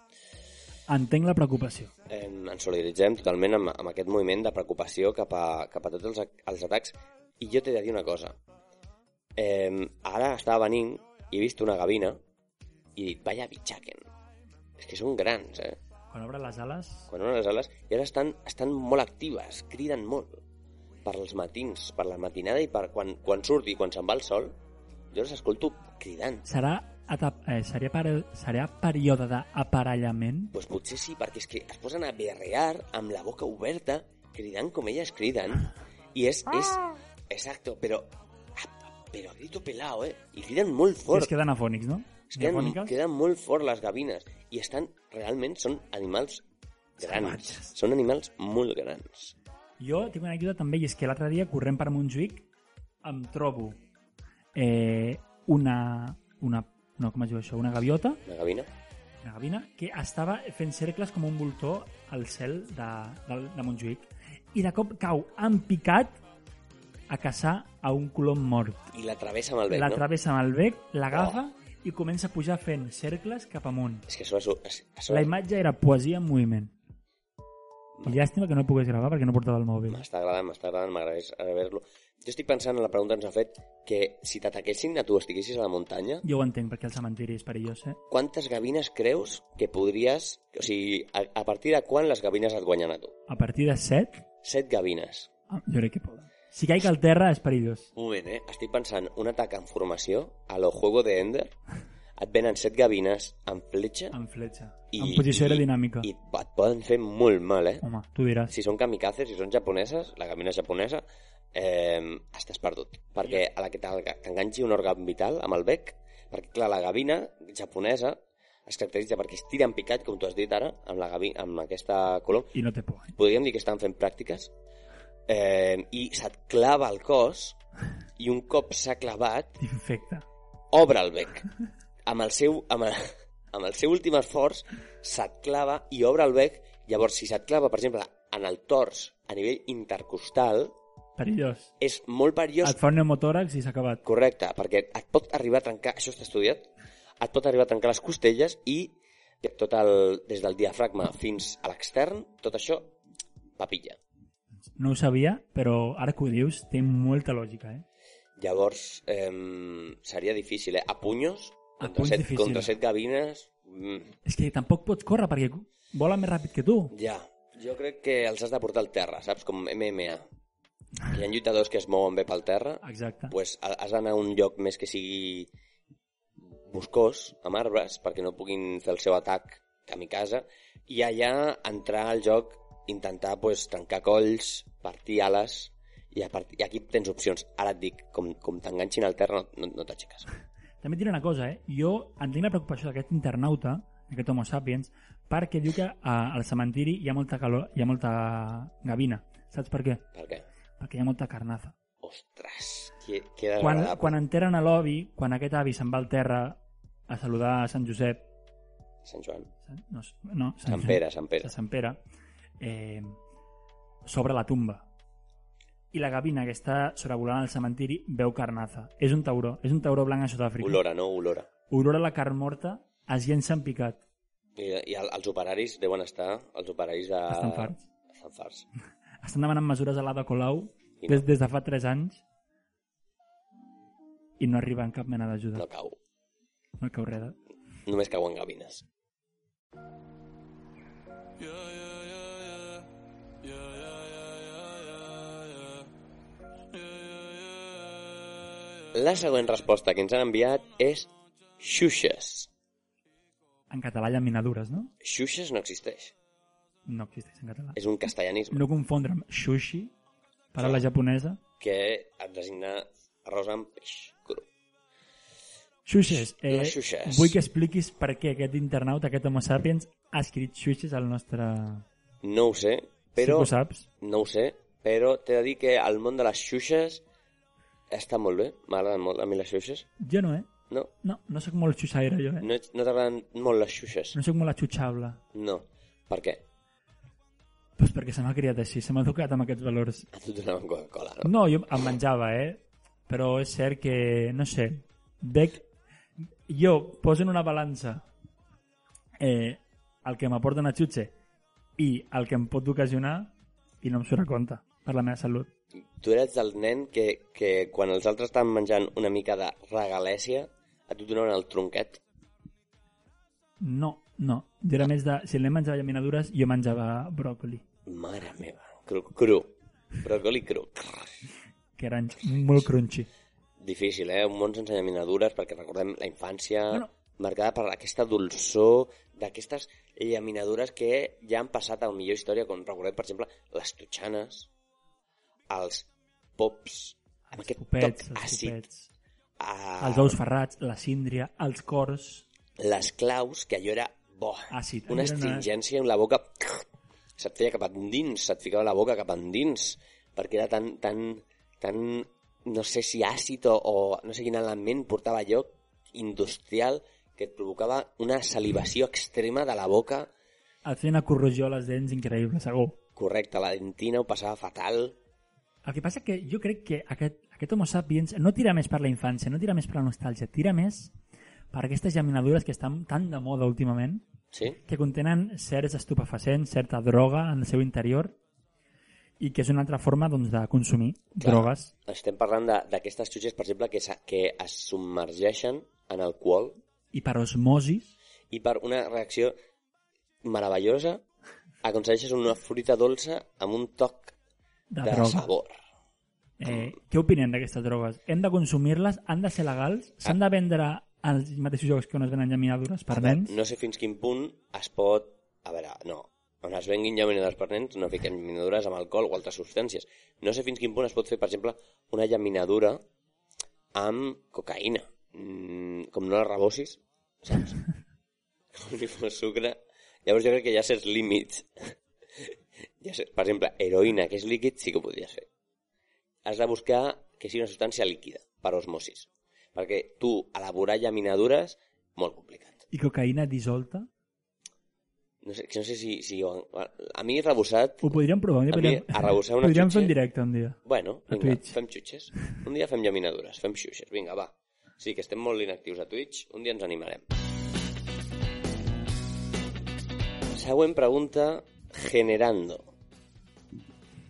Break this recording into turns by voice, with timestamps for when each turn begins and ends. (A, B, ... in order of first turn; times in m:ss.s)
0:00.9-0:01.9 A
0:02.1-0:08.4 B
0:09.4-0:12.2 B
0:13.0-0:14.0 B
0:14.8-0:15.8 B
0:16.1-0:17.1 A
0:17.1-0:20.4 B
0:21.0-0:24.6 B
0:25.1-0:26.4 B
0:26.4-0:30.5 A
0:30.5-0:41.3 B
0:41.1-0:43.0 A
0:42.3-0:46.4 B
0:47.0-0:47.7 A
0:47.0-0:49.3 B
0:49.8-0:52.5 A
0:53.0-0:53.8 A
0:54.5-0:58.2 A
0:58.2-0:58.7 B
0:59.2-1:06.2 A
1:07.1-1:08.9 A
1:08.9-1:10.0 B
1:09.7-1:14.0 A
1:11.1-1:11.4 B
1:14.1-1:15.3 B
1:15.1-1:16.7 A
1:18.0-1:20.0 A
1:19.9-1:26.2 B
1:26.2-1:28.0 A
1:28.1-1:33.2 B
1:33.3-1:34.2 A
1:34.4-1:35.3 B
1:35.5-1:37.9 A
1:37.9-1:41.6 B
1:42.2-1:44.2 B
1:44.1-1:46.1 A
1:44.9-1:47.8 B
1:47.8-1:48.5 A
1:48.5-2:02.5 B
2:02.5-2:03.1 A
2:03.1-2:04.5 B
2:05.3-2:07.6 B
2:08.2-2:09.6 B
2:09.6-2:10.2 A
2:10.7-2:11.5 B
2:12.0-2:20.7 B
2:21.2-2:21.7 A
2:21.8-2:22.8 B
2:22.6-2:24.0 A
2:24.0-2:26.7 B
2:27.2-2:33.0 B
2:33.6-2:34.0 B
2:34.8-2:37.8 A
2:38.4-2:44.2 B
2:41.8-2:42.7 A
2:44.2-2:46.9 A
2:46.9-2:50.2 B
2:51.0-2:55.5 B
2:52.8-2:53.3 A
2:56.6-3:10.3 B
3:10.8-3:20.0 A
3:20.1-3:20.4 B
3:20.8-3:21.7 A
3:22.0-3:24.2 B
3:23.6-3:28.2 A
3:29.0-3:29.5 B
3:29.6-3:32.0 A
3:30.7-3:31.5 B
3:32.6-3:33.2 A
3:34.0-3:34.9 A
3:35.9-3:40.8 A
3:40.6-3:41.5 B
3:41.7-3:44.0 A
3:44.6-3:48.6 B
3:47.3-3:47.8 A
3:49.2-3:52.2 A
3:54.4-3:55.6 A
3:55.5-3:56.0 B
3:56.8-3:57.4 A
3:57.8-3:58.8 B
4:08.9-4:12.5 B
4:13.7-4:14.9 A
4:15.0-4:16.1 B
4:16.8-4:17.8 A
4:17.7-4:18.6 B
4:18.5-4:19.9 A
4:20.5-4:21.4 A
4:21.6-4:24.5 B
4:25.8-4:31.8 A
4:26.1-4:27.4 B
4:32.2-4:37.0 B
4:33.2-4:33.8 A
4:37.9-4:39.9 B
4:40.0-4:40.5 A
4:41.0-4:42.5 A
4:42.4-4:44.2 B
4:44.1-4:45.2 A
4:45.3-4:46.4 B
4:47.8-4:50.1 A
4:50.1-4:51.3 B
4:51.2-4:55.7 A
4:56.5-4:58.0 A
4:59.2-5:01.1 A
5:01.8-5:05.5 A
5:06.0-5:12.0 B
5:13.6-5:17.6 A
5:17.8-5:21.2 B
5:21.8-5:23.1 A
5:23.6-5:34.5 B
5:35.5-5:38.6 B
5:37.3-5:38.9 A
5:39.4-5:40.2 B
5:39.8-5:42.2 A
5:42.6-5:46.6 B
5:44.5-5:45.5 A
5:47.2-6:00.1 B
6:00.6-6:02.8 A
6:03.0-6:05.0 B
6:05.6-6:10.9 A
6:11.5-6:14.0 A
6:14.3-6:14.6 B
6:14.6-6:18.2 A
6:19.2-6:21.7 A
6:21.2-6:26.6 B
6:26.9-6:27.9 A
6:28.3-6:29.3 B
6:30.2-6:31.0 B
6:31.6-6:34.1 B
6:34.7-6:35.3 A
6:34.8-6:35.6 B
6:36.4-6:43.4 A
6:42.9-6:52.8 B
6:53.7-6:57.6 B
6:58.5-7:01.7 B
7:02.8-7:05.3 B
7:06.2-7:12.6 B
7:12.7-7:13.9 A
7:15.2-7:17.9 B
7:17.8-7:21.6 A
7:18.5-7:19.9 B
7:20.6-7:27.0 B
7:30.3-7:32.7 B